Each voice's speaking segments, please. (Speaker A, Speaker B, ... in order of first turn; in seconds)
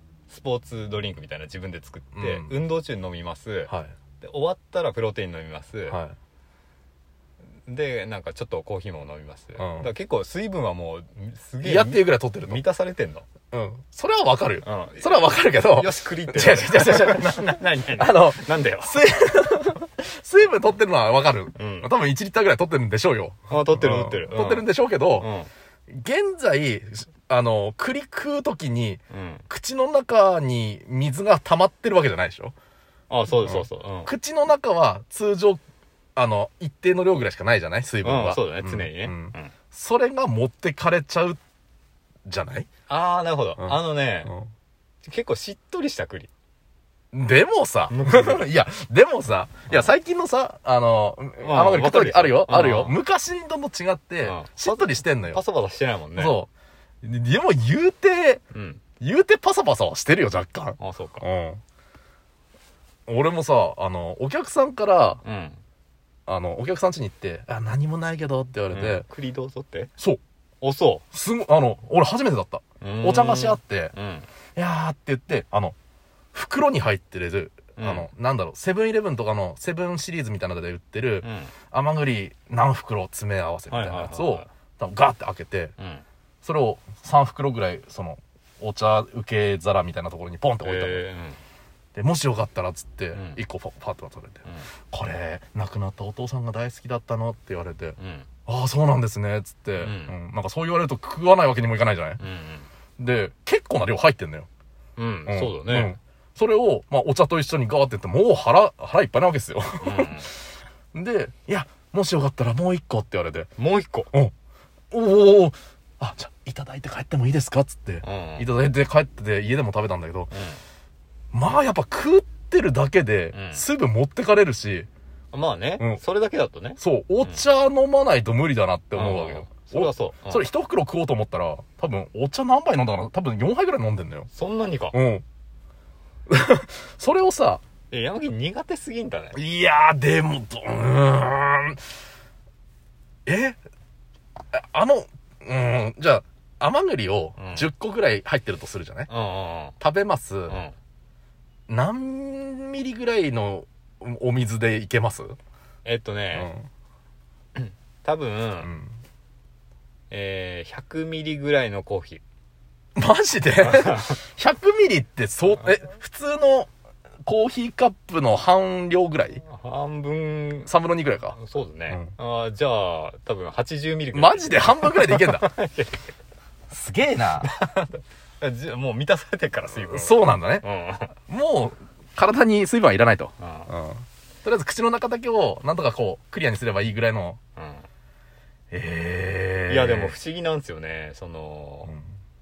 Speaker A: 0.3-6.0, 7.7-13.2, 14.6-19.0, 21.6-21.9, 23.5-25.5, 29.1-29.4, 33.1-34.1, 38.0-39.5, 42.9-44.3, 45.0-46.3, 47.9-48.5, 51.4-53.0, 54.2-56.4, 58.5-58.8, 60.8-61.2, 65.2-65.6, 68.7-69.9, 70.6-71.0, 72.8-74.3, 77.8-78.1, 81.2-81.5, 83.7-84.5, 85.8-86.0, 90.6-91.4, 93.1-93.4, 98.0-98.3, 99.8-100.2, 102.2-102.7, 105.0-106.0, 109.8-110.3, 113.6-114.1, 118.0-118.5, 120.3-120.6, 123.3-123.6, 125.3-127.4, 128.9-130.5, 134.3-135.0, 137.9-139.4, 147.4-147.7, 149.1-149.8, 150.5-150.8, 155.8-156.5, 157.6-158.7, 160.1-162.2, 163.6-164.2, 169.4-170.7, 171.3-176.1, 177.4-181.2, 183.4-183.7, 187.6-187.9, 189.7-191.9
Speaker B: 2.2-2.5, 5.9-6.2, 9.6-9.9, 11.6-12.6, 13.5-25.3, 25.9-32.5, 33.3-35.6, 36.2-41.4, 42.3-42.7, 43.6-44.5, 47.1-55.4, 56.1-56.5, 57.0-58.4, 59.0-61.6, 63.1-65.2, 66.3-69.1, 71.1-73.9, 74.6-75.8, 76.3-85.7, 86.4-91.1, 92.0-102.2, 103.0-104.5, 105.3-110.4, 110.9-113.5, 114.9-120.3, 121.3-124.9, 126.8-134.3, 134.9-135.2, 136.3-137.6, 139.3-141.8, 143.3-143.6, 144.5-149.1, 149.8-150.6, 151.7-155.4, 156.3-156.7, 158.6-159.0, 163.0-166.7, 167.2-169.4, 170.7-172.1, 174.1-175.5, 176.7-177.5, 179.8-180.7, 181.3-187.4, 188.7-190.2